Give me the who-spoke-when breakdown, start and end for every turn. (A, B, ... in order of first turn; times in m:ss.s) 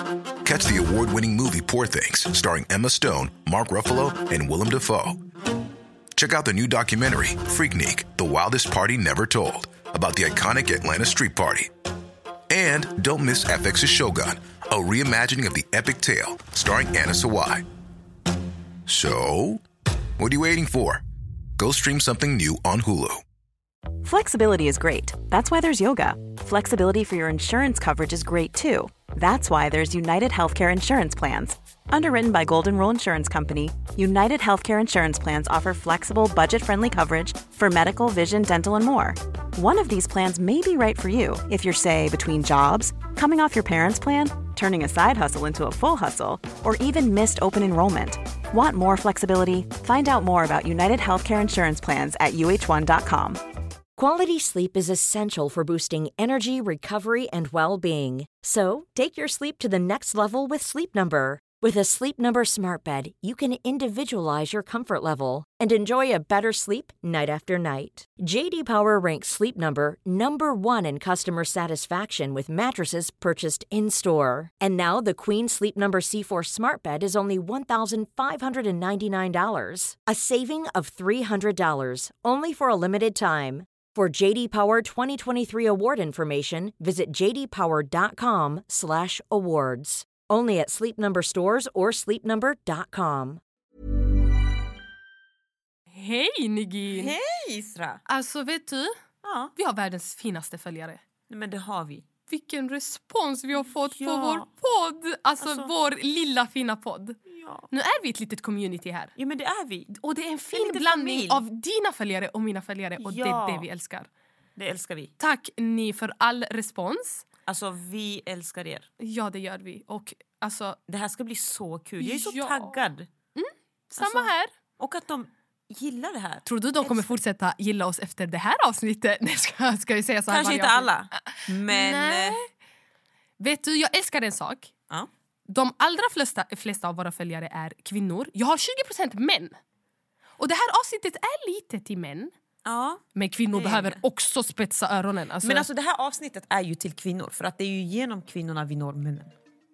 0:00.4-0:05.2 A
0:06.1-0:11.7 A
0:12.5-0:17.6 A
0:18.9-0:19.6 A
0:20.2-0:21.0 A
0:21.6-0:23.2 A
0:24.0-0:53.4 B
0:54.0-1:33.4 C
1:35.9-1:37.1 D
1:36.9-1:38.0 E
1:38.1-1:39.0 D
1:39.2-1:39.5 E
1:39.6-1:41.0 D
1:41.3-1:42.0 E
1:42.3-1:47.2 D
1:43.6-1:44.5 E
1:45.4-1:45.7 E
1:47.3-1:47.7 E
1:47.7-1:49.1 D
1:49.2-1:49.9 E
1:49.9-1:54.1 D
1:50.5-1:51.4 E
1:53.0-1:53.7 E
1:54.6-1:55.1 E
1:55.2-1:57.2 D
1:57.5-1:58.9 E
1:59.0-2:00.8 D
2:00.9-2:03.1 E
2:02.0-2:02.8 D
2:03.3-2:04.5 D
2:04.0-2:07.1 E
2:06.4-2:12.5 D
2:10.3-2:12.4 E
2:13.4-2:14.7 D
2:15.5-2:19.6 D
2:20.4-2:22.3 D
2:22.6-2:23.0 E
2:23.2-2:25.7 D
2:23.5-2:24.0 E
2:25.4-2:29.3 E